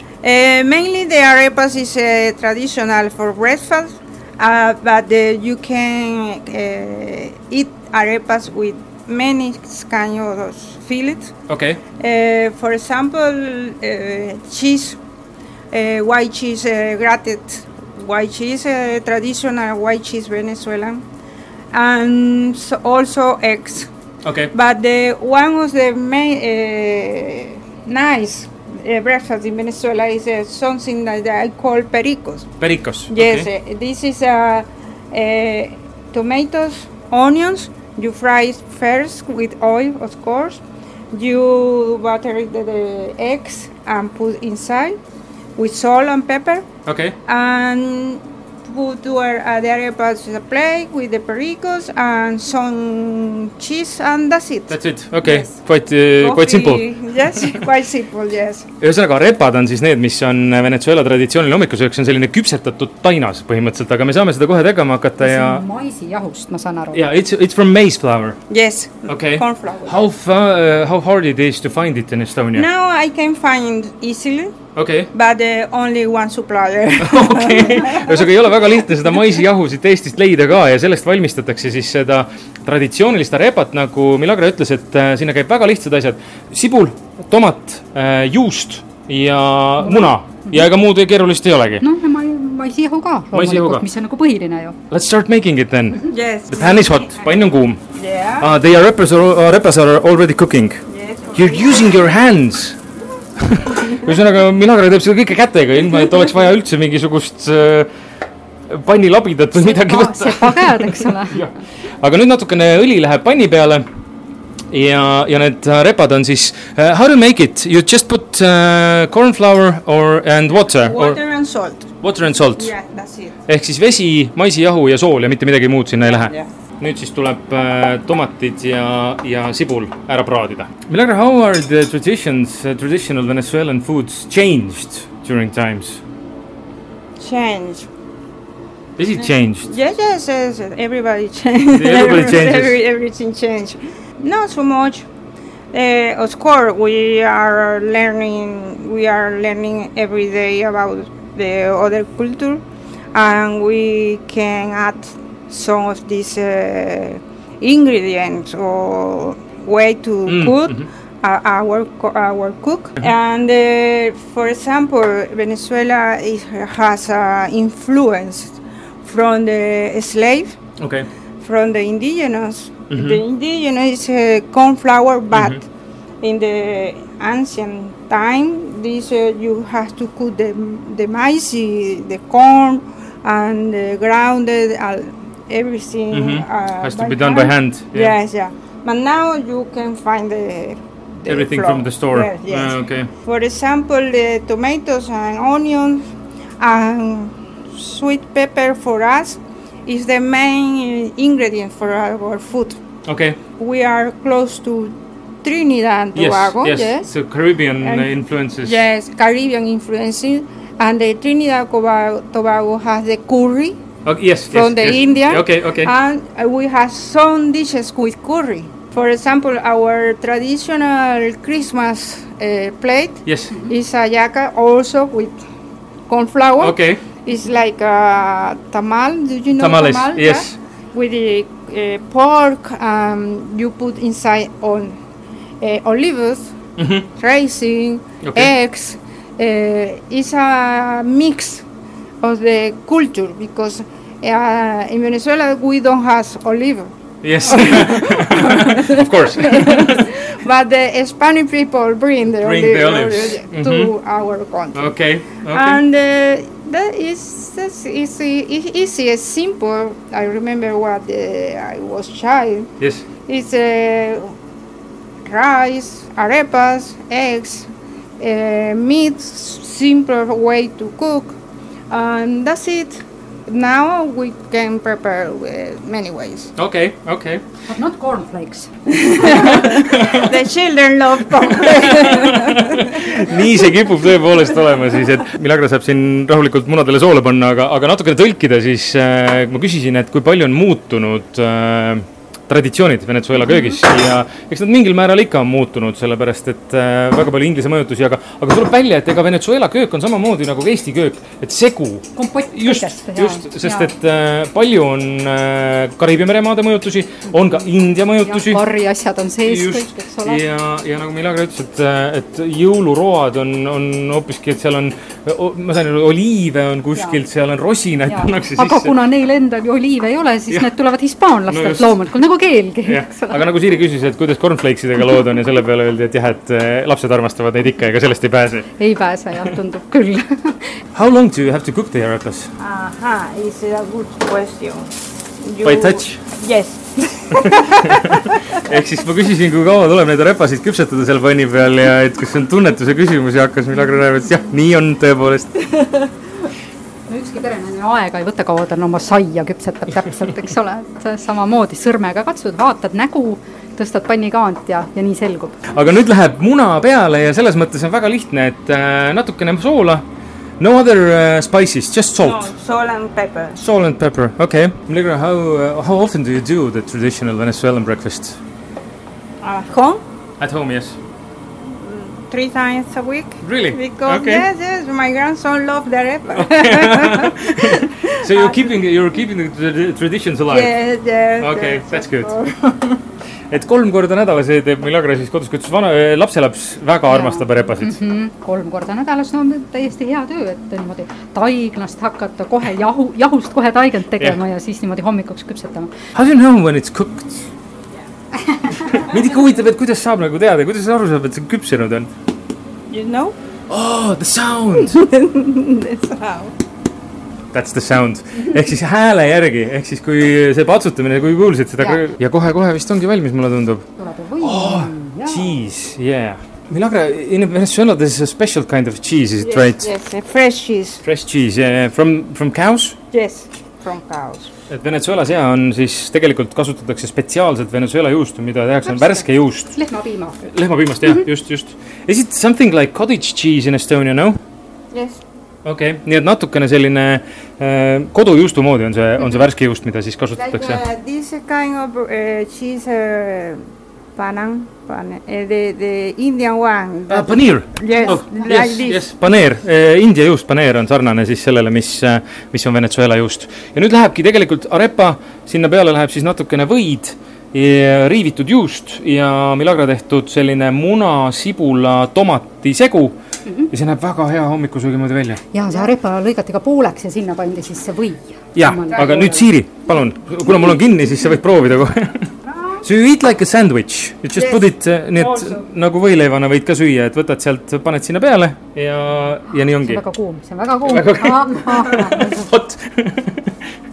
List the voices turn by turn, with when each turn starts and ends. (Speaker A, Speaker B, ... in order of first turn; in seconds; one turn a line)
Speaker A: 0.2-11.3
Speaker B: 11.5-11.8
Speaker A: 12.0-15.0
Speaker A: 15.7-21.0
Speaker A: 21.7-23.9
Speaker B: 24.2-24.5
Speaker A: 24.5-32.5
Speaker B: 32.6-33.5
Speaker A: 33.1-45.0
Speaker A: 45.6-46.6
Speaker B: 46.9-47.2
Speaker A: 47.2-55.5
Speaker B: 54.7-56.9
Speaker A: 56.2-58.7
Speaker B: 58.8-65.6
Speaker C: 65.2-67.0
Speaker B: 66.9-68.4
Speaker A: 68.5-70.0
Speaker B: 69.1-72.7
Speaker A: 72.5-74.5
Speaker B: 74.8-75.1
Speaker A: 75.1-78.3
Speaker B: 77.0-91.9
Speaker C: 89.8-90.7
Speaker C: 91.8-94.8
Speaker B: 93.3-93.9
Speaker B: 94.9-97.8
Speaker A: 96.0-97.4
Speaker A: 97.9-98.5
Speaker B: 98.4-100.8
Speaker A: 100.9-102.0
Speaker B: 101.3-102.8
Speaker B: 103.4-107.9
Speaker B: 108.7-113.8
Speaker C: 109.5-111.4
Speaker B: 114.7-121.2
Speaker A: 120.7-121.9
Speaker B: 122.0-122.7
Speaker A: 122.6-123.3
Speaker B: 123.5-136.0
Speaker A: 126.1-126.5
Speaker A: 137.2-137.9
Speaker B: 139.0-139.7
Speaker A: 139.6-145.1
Speaker B: 141.7-142.8
Speaker A: 145.7-170.6
Speaker B: 160.3-160.9
Speaker B: 170.8-171.1
Speaker A: 171.4-175.7
Speaker B: 172.9-173.2
Speaker B: 175.3-175.6
Speaker A: 176.2-196.0
Speaker B: 186.1-188.1
Speaker B: 191.3-193.1
Speaker A: 196.6-202.8
Speaker B: 203.1-203.4
Speaker A: 203.6-207.1
Speaker B: 206.2-208.8
Speaker A: 207.8-208.1
Speaker A: 208.6-213.8
Speaker B: 214.1-215.9
Speaker A: 214.5-225.4
Speaker B: 223.3-223.6
Speaker A: 226.1-234.9
Speaker B: 226.6-227.0
Speaker B: 229.6-230.6
Speaker A: 235.6-236.6
Speaker B: 236.8-237.1
Speaker A: 237.2-241.7
Speaker B: 238.2-238.5
Speaker A: 242.2-246.9
Speaker B: 247.2-250.1
Speaker A: 247.4-254.9
Speaker B: 252.4-253.9
Speaker B: 254.7-255.8
Speaker A: 255.5-262.7
Speaker B: 262.8-263.1
Speaker A: 263.3-264.3
Speaker A: 265.2-271.4
Speaker A: 271.9-276.5
Speaker B: 276.6-277.4
Speaker C: 277.7-278.7
Speaker A: 278.9-283.6
Speaker C: 279.2-279.8
Speaker B: 279.8-280.3
Speaker B: 281.5-308.6
Speaker C: 293.5-293.8
Speaker C: 302.1-303.9
Speaker C: 308.2-310.4
Speaker B: 309.4-319.0
Speaker C: 316.9-317.2
Speaker C: 318.1-323.5
Speaker B: 321.5-322.0
Speaker B: 322.9-328.7
Speaker C: 328.8-330.7
Speaker B: 330.9-332.5
Speaker A: 332.6-338.6
Speaker B: 335.6-336.2
Speaker B: 337.7-345.7
Speaker C: 347.1-355.8
Speaker B: 355.7-360.1
Speaker B: 360.6-362.5
Speaker A: 362.2-363.6
Speaker B: 363.6-368.4
Speaker A: 369.4-370.0
Speaker B: 370.4-371.0
Speaker A: 371.7-378.7
Speaker B: 373.4-374.5
Speaker B: 376.4-380.8
Speaker A: 380.5-383.0
Speaker B: 381.4-382.4
Speaker B: 383.5-388.0
Speaker C: 387.1-395.9
Speaker B: 396.1-397.5
Speaker C: 398.6-398.8
Speaker B: 398.7-402.1
Speaker A: 402.9-403.4
Speaker B: 403.7-405.0
Speaker A: 404.8-406.5
Speaker B: 407.5-413.9
Speaker C: 414.0-415.7
Speaker B: 414.4-419.9
Speaker A: 419.4-421.0
Speaker B: 421.0-423.0
Speaker A: 423.1-424.5
Speaker B: 424.7-429.8
Speaker C: 428.9-430.4
Speaker B: 430.4-434.4
Speaker A: 434.9-435.2
Speaker B: 435.6-440.8
Speaker A: 440.4-443.6
Speaker A: 444.2-449.1
Speaker B: 447.1-463.2
Speaker B: 463.7-465.4
Speaker C: 465.5-469.5
Speaker B: 468.6-480.0
Speaker A: 474.4-475.6
Speaker C: 479.8-482.5
Speaker B: 480.8-483.5